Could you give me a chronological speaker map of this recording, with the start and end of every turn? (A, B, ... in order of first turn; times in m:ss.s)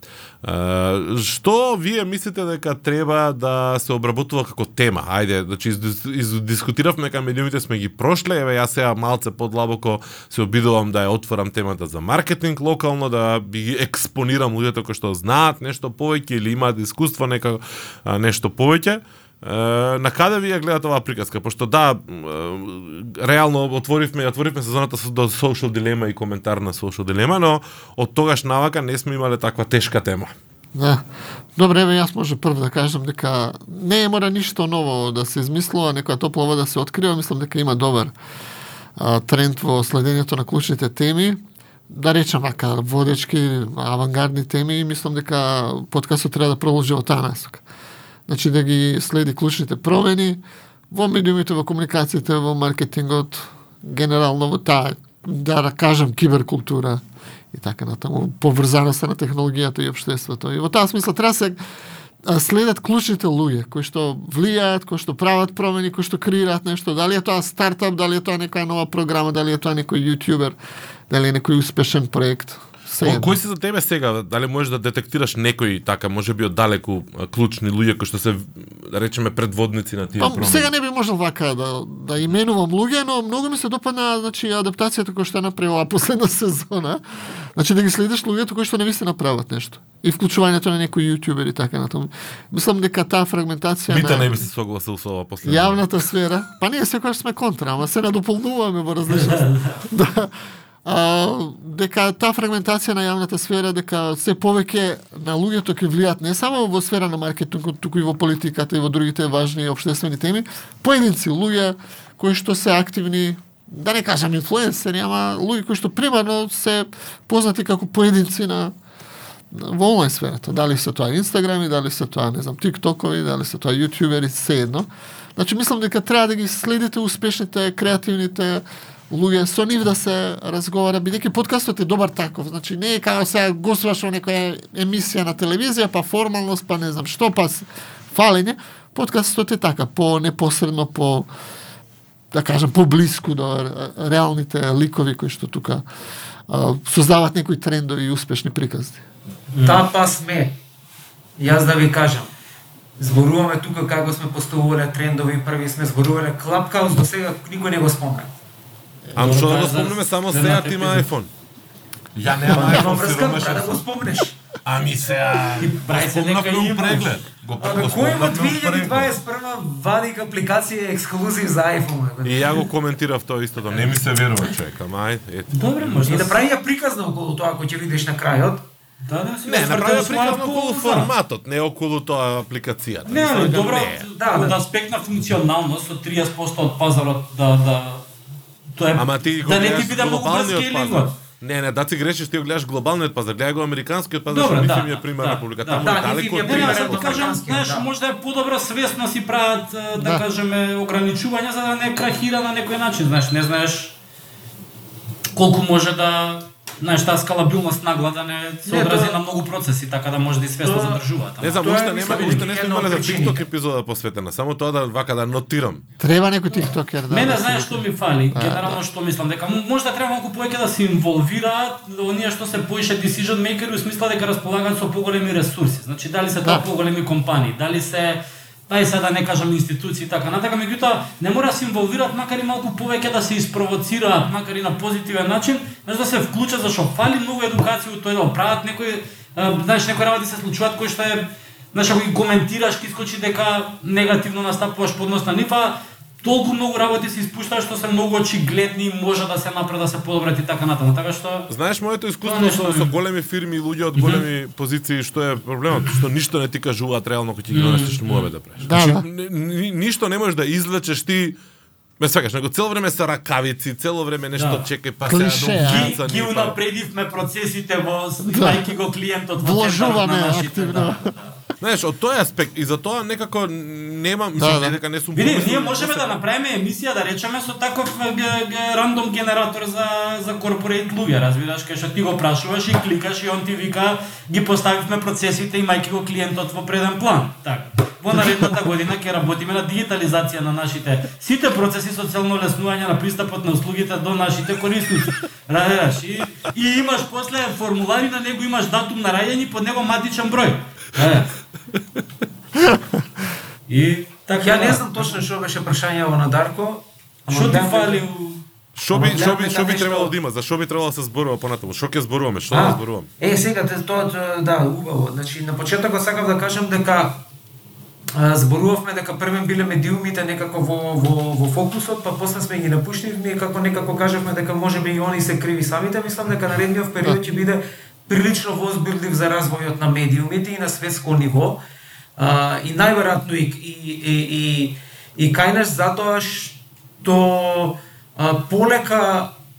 0:00.4-0:30.3 A
0:30.7-0:31.0 B
0:31.6-0:38.1 B
0:39.0-0:47.6 B
0:48.3-0:57.0 B
0:57.5-1:01.6 B
1:02.2-1:10.6 B
1:11.1-1:13.3 B
1:13.0-1:20.7 A
1:20.2-1:27.0 B
1:27.5-1:34.3 B
1:33.9-1:35.8 A
1:35.4-1:40.3 B
1:39.1-1:39.8 C
1:40.8-1:58.7 B
1:59.5-2:21.3 B
2:22.3-2:25.8 B
2:26.5-2:29.0 B
2:29.5-2:29.8 C
2:29.6-2:30.6 D
2:31.4-2:32.3 D
2:33.0-2:38.3 D
2:39.1-2:41.3 A
2:39.2-2:41.1 C
2:42.2-2:43.8 A
2:42.5-2:44.3 D
2:44.6-2:49.1 A
2:45.6-2:47.0 D
2:45.8-2:47.1 C
2:47.6-2:52.7 D
2:52.2-2:56.1 A
2:55.5-2:56.4 C
2:56.0-2:58.6 D
2:59.1-3:01.1 C
2:59.4-3:04.1 A
3:03.1-3:08.0 C
3:04.1-3:04.6 D
3:08.7-3:11.1 C
3:09.0-3:17.3 A
3:14.3-3:23.9 C
3:15.8-3:17.9 D
3:20.0-3:20.2 B
3:25.3-3:32.5 C
3:28.6-3:29.2 D
3:30.6-3:31.0 D
3:31.4-3:35.8 A
3:31.6-3:33.4 D
3:36.0-3:38.8 B
3:37.1-4:11.5 C
4:11.5-4:21.4 A
4:12.2-4:13.0 C
4:14.0-4:14.2 C
4:17.5-4:18.3 C
4:18.6-4:19.0 B
4:22.0-4:26.6 A
4:24.3-4:24.7 C
4:25.0-4:26.0 B
4:25.6-4:31.4 C
4:28.2-4:28.7 B
4:29.4-4:31.1 B
4:31.6-4:36.1 A
4:34.4-4:34.7 B
4:35.1-5:01.3 C
5:03.7-5:05.1 C
5:04.4-5:08.0 D
5:07.3-5:08.4 C
5:08.8-5:13.1 A
5:08.9-5:10.1 D
5:12.5-5:17.2 D
5:18.1-5:31.6 D
5:32.2-5:39.3 D